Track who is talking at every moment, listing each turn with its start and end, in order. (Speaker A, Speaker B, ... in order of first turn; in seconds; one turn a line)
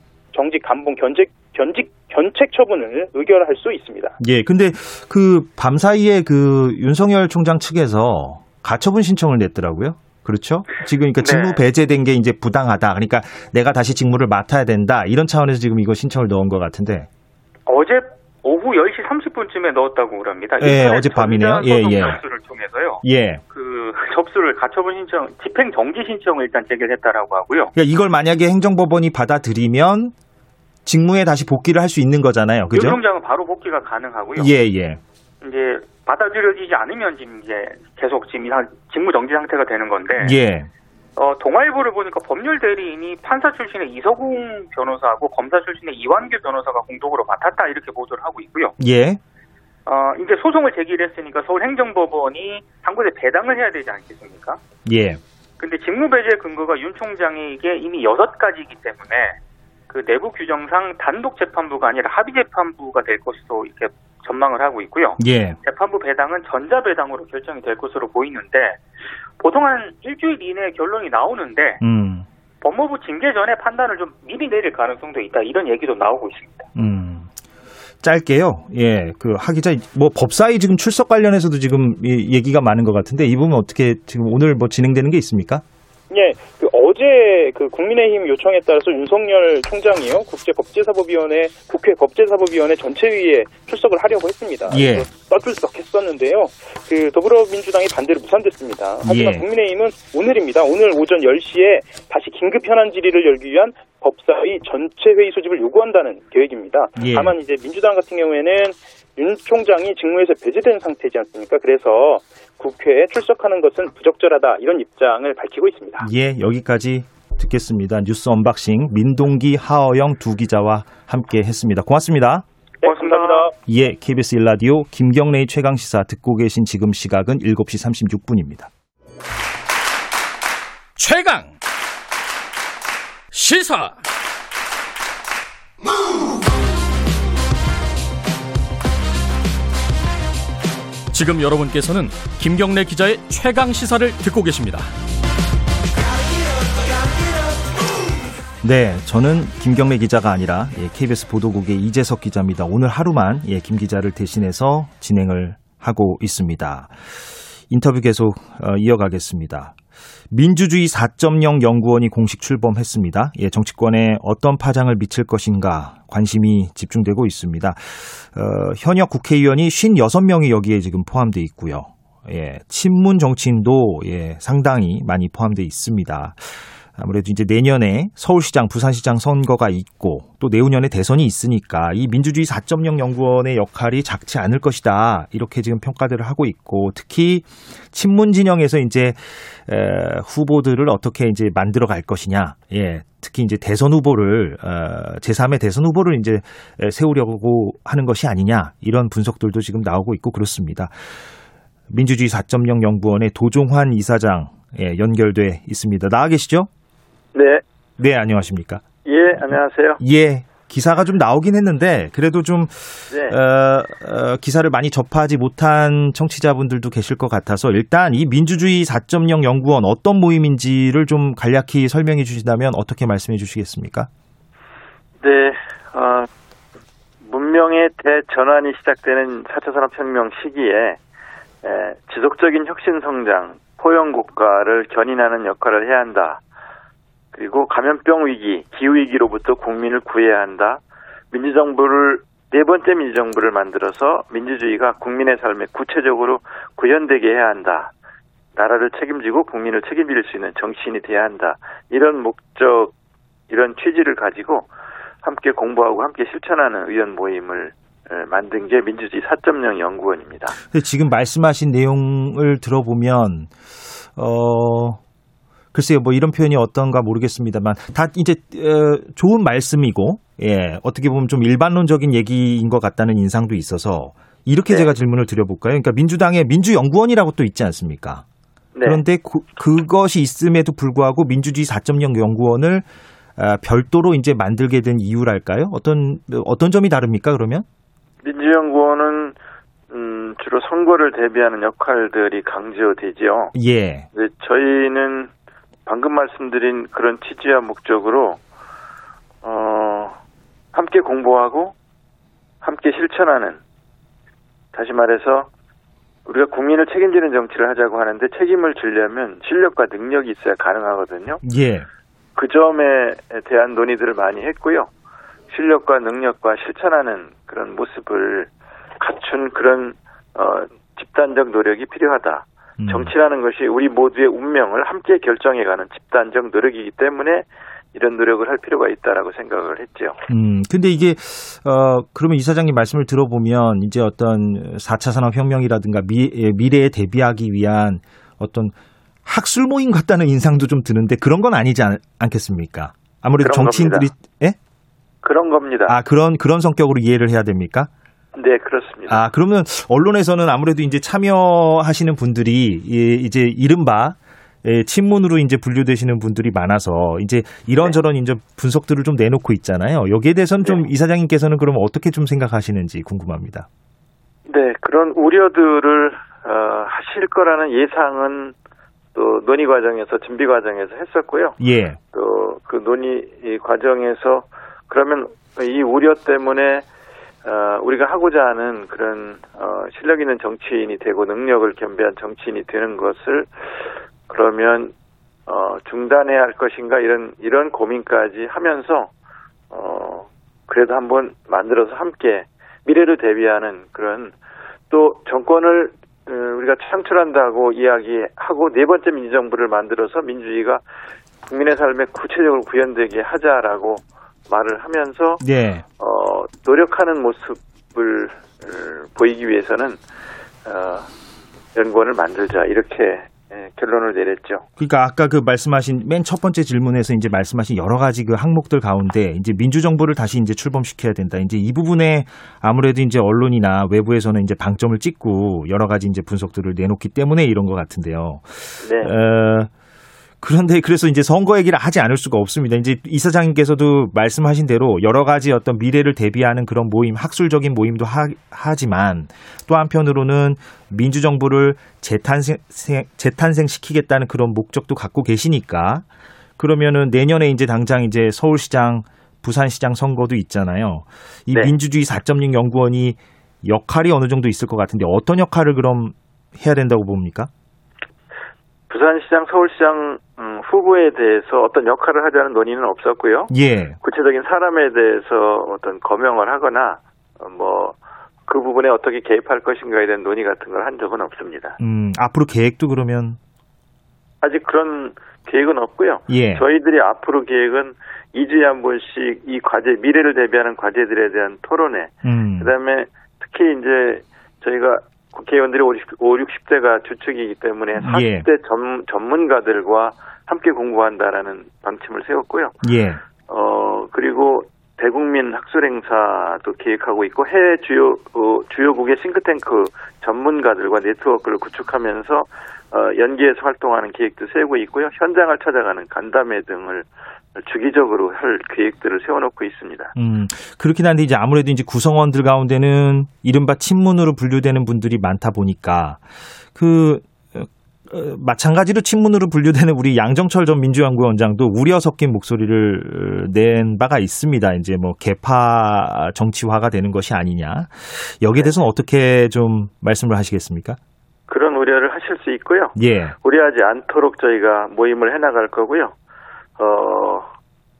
Speaker A: 0.3-4.2
Speaker B: 4.2-17.1
Speaker C: 11.2-11.6
Speaker C: 17.7-27.7
Speaker B: 20.6-22.2
Speaker B: 23.0-23.4
Speaker B: 27.8-30.1
Speaker B: 30.8-33.0
Speaker C: 32.7-34.5
Speaker B: 34.4-35.0
Speaker C: 35.4-40.4
Speaker B: 40.2-40.7
Speaker C: 41.2-48.7
Speaker B: 48.8-49.2
Speaker C: 49.9-54.6
Speaker B: 54.9-55.2
Speaker C: 55.6-59.4
Speaker C: 59.9-68.8
Speaker B: 65.2-65.6
Speaker C: 69.4-71.8
Speaker B: 71.8-72.2
Speaker C: 72.6-76.7
Speaker B: 76.7-77.3
Speaker B: 78.0-85.6
Speaker A: 86.1-116.1
Speaker B: 94.7-95.1
Speaker B: 99.0-99.4
Speaker B: 107.0-107.3
Speaker B: 116.0-122.4
Speaker C: 122.8-123.5
Speaker A: 122.8-123.5
Speaker B: 123.7-128.7
Speaker D: 131.0-131.5
Speaker D: 133.3-134.0
Speaker D: 141.1-144.9
Speaker B: 148.6-156.9
Speaker B: 157.7-159.7
Speaker B: 160.3-200.9
Speaker B: 201.9-206.7
Speaker E: 207.3-207.6
Speaker B: 208.0-208.8
Speaker E: 209.0-210.0
Speaker B: 209.4-224.1
Speaker E: 213.1-213.3
Speaker E: 225.2-226.3
Speaker E: 227.2-231.0
Speaker E: 231.6-236.4
Speaker E: 237.3-240.8
Speaker E: 241.3-247.9
Speaker E: 248.6-252.9
Speaker E: 253.5-254.7
Speaker E: 255.2-260.6
Speaker B: 260.6-263.5
Speaker B: 264.1-265.0
Speaker B: 265.7-278.2
Speaker E: 278.7-279.0
Speaker B: 278.8-287.6
Speaker E: 288.2-289.4
Speaker E: 289.9-293.5
Speaker B: 293.5-294.1
Speaker E: 294.1-295.3
Speaker E: 295.9-298.4
Speaker E: 299.4-300.2
Speaker E: 300.7-301.7
Speaker E: 302.6-303.6
Speaker E: 304.7-305.5
Speaker E: 306.3-311.4
Speaker B: 311.4-311.9
Speaker E: 312.4-314.9
Speaker E: 315.5-330.2
Speaker B: 322.8-323.1
Speaker B: 330.3-344.6
Speaker E: 343.4-344.1
Speaker E: 345.2-346.0
Speaker B: 345.9-347.9
Speaker E: 348.3-349.2
Speaker B: 349.1-363.7
Speaker E: 364.5-368.5
Speaker E: 369.1-371.6
Speaker B: 371.6-372.0
Speaker E: 372.1-376.9
Speaker E: 377.4-383.5
Speaker E: 384.3-384.9
Speaker E: 385.5-389.1
Speaker E: 389.7-394.3
Speaker E: 394.9-400.8
Speaker E: 401.5-405.4
Speaker B: 405.4-405.8
Speaker E: 406.0-410.0
Speaker E: 410.6-411.1
Speaker E: 411.7-414.6
Speaker B: 414.8-429.7
Speaker E: 428.8-429.1
Speaker B: 430.4-446.0
Speaker B: 446.6-457.5
Speaker E: 458.9-471.8
Speaker B: 463.5-464.0
Speaker B: 471.8-473.4
Speaker E: 474.4-492.7
Speaker B: 476.3-476.6
Speaker B: 482.2-482.7
Speaker B: 488.0-488.4
Speaker B: 492.8-493.2
Speaker E: 493.5-510.1
Speaker B: 510.1-516.2
Speaker B: 516.7-531.0
Speaker E: 531.5-536.1
Speaker B: 533.0-533.4
Speaker E: 536.8-537.5